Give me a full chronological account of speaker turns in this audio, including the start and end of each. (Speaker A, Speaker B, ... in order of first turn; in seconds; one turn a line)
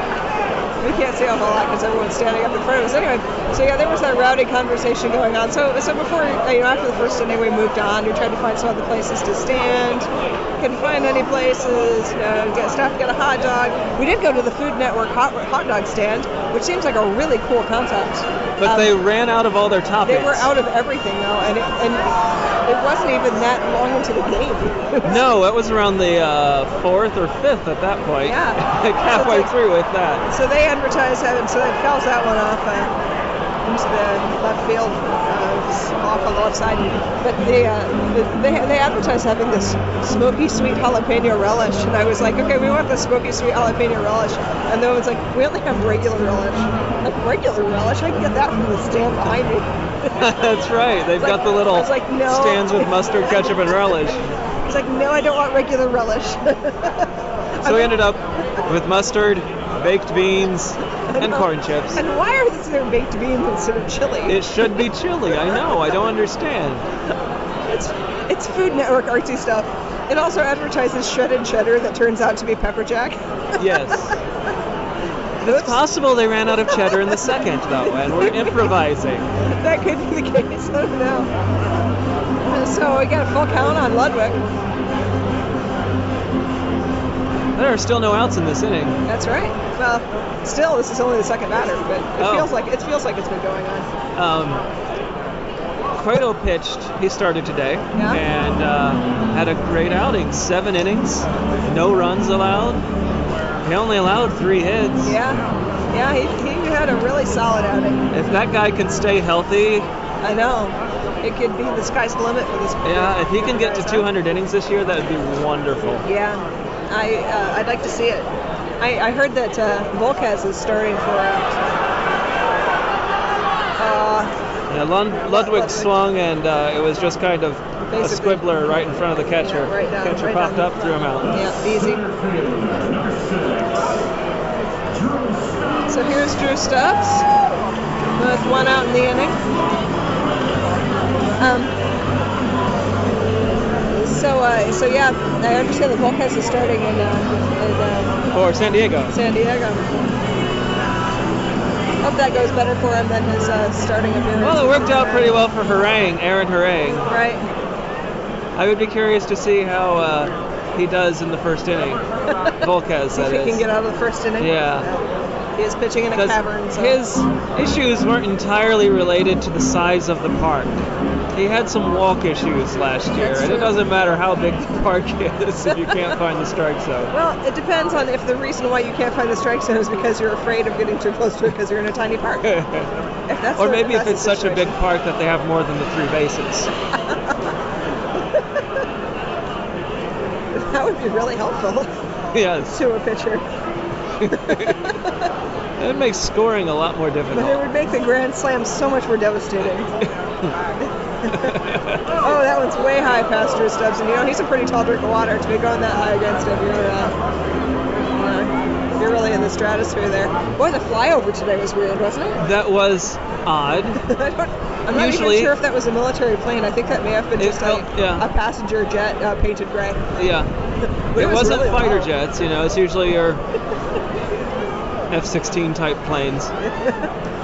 Speaker A: 0.8-18.9
Speaker B: 18.6-20.5
Speaker A: 20.0-22.1
Speaker A: 22.6-25.2
Speaker B: 25.0-30.2
Speaker A: 28.2-29.5
Speaker A: 30.2-32.9
Speaker A: 33.6-50.2
Speaker B: 50.2-54.3
Speaker A: 51.2-53.8
Speaker A: 54.6-57.1
Speaker A: 57.6-58.0
Speaker B: 57.6-62.0
Speaker A: 61.1-64.8
Speaker B: 64.2-66.8
Speaker A: 67.7-74.1
Speaker B: 73.6-74.2
Speaker B: 75.4-79.3
Speaker A: 75.4-75.8
Speaker A: 76.7-78.8
Speaker A: 79.4-81.3
Speaker A: 82.5-84.4
Speaker B: 87.5-89.0
Speaker A: 89.0-93.9
Speaker B: 92.2-92.5
Speaker B: 94.1-94.7
Speaker B: 95.9-102.8
Speaker A: 97.9-98.2
Speaker B: 103.6-105.2
Speaker A: 105.0-108.0
Speaker B: 108.1-109.9
Speaker A: 110.2-114.1
Speaker B: 112.8-116.0
Speaker A: 116.0-121.6
Speaker A: 123.8-124.3
Speaker B: 124.7-131.4
Speaker A: 125.1-125.9
Speaker A: 127.9-128.5
Speaker A: 129.4-132.1
Speaker A: 135.9-137.2
Speaker A: 138.1-139.4
Speaker A: 141.4-141.7
Speaker A: 143.9-148.3
Speaker B: 148.3-149.1
Speaker A: 149.1-149.9
Speaker A: 152.0-155.4
Speaker B: 154.4-157.1
Speaker A: 157.1-157.5
Speaker B: 158.6-162.0
Speaker A: 162.2-162.6
Speaker B: 162.6-163.6
Speaker A: 163.1-167.0
Speaker B: 164.4-164.9
Speaker B: 166.1-170.8
Speaker B: 171.3-177.1
Speaker A: 173.1-173.8
Speaker A: 175.6-176.1
Speaker A: 177.1-182.5
Speaker B: 182.4-182.9
Speaker A: 183.3-184.7
Speaker B: 183.6-186.7
Speaker A: 190.5-191.9
Speaker B: 192.3-192.8
Speaker A: 192.7-193.4
Speaker B: 194.2-194.9
Speaker A: 194.3-195.3
Speaker B: 195.8-197.6
Speaker A: 197.3-199.9
Speaker B: 200.0-200.5
Speaker A: 200.8-201.6
Speaker B: 201.3-202.1
Speaker A: 202.2-207.2
Speaker A: 208.1-212.4
Speaker B: 212.4-214.0
Speaker A: 214.0-220.1
Speaker B: 214.9-215.5
Speaker B: 217.4-218.2
Speaker B: 220.2-220.5
Speaker A: 221.1-222.1
Speaker B: 221.1-223.4
Speaker B: 225.1-226.5
Speaker A: 226.6-227.1